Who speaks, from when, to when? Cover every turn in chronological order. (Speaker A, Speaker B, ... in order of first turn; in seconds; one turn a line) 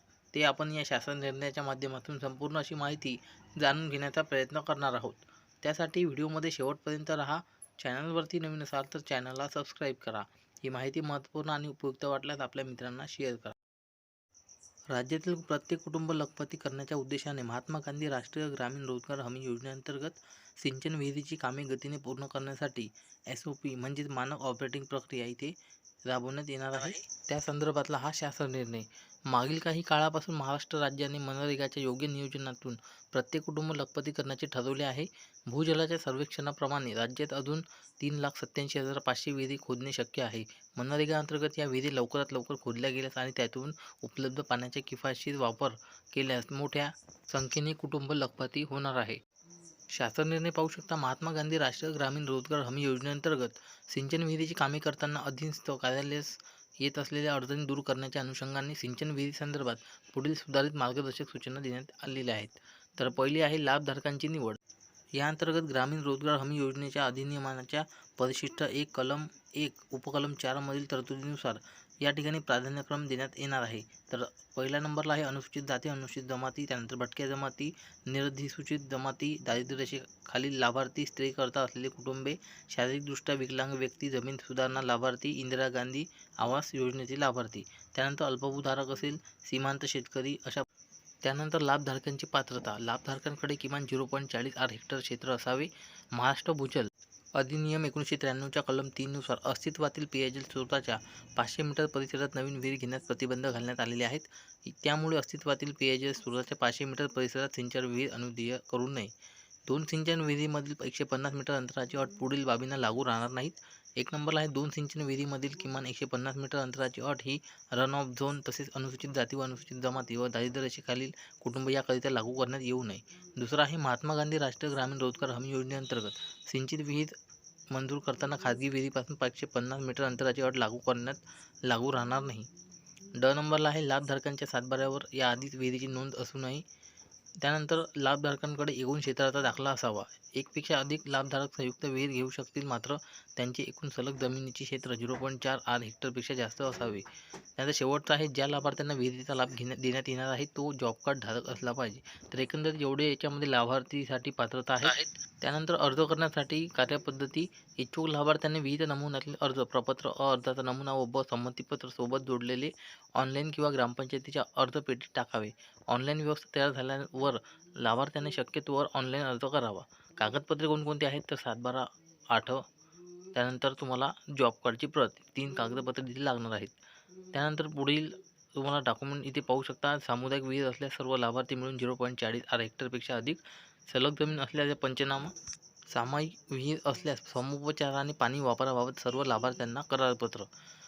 Speaker A: 0.3-13.6
Speaker A: 14.9-25.5
Speaker A: 26.1-49.2
Speaker A: 49.9-64.6
Speaker A: 65.2-90.7
Speaker A: 91.2-109.1
Speaker A: 109.7-127.1
Speaker A: 127.7-132.5
Speaker A: 133.1-136.6
Speaker A: 137.4-147.0
Speaker A: 147.6-172.6
Speaker A: 173.3-176.7
Speaker A: 177.3-185.3
Speaker A: 185.9-190.5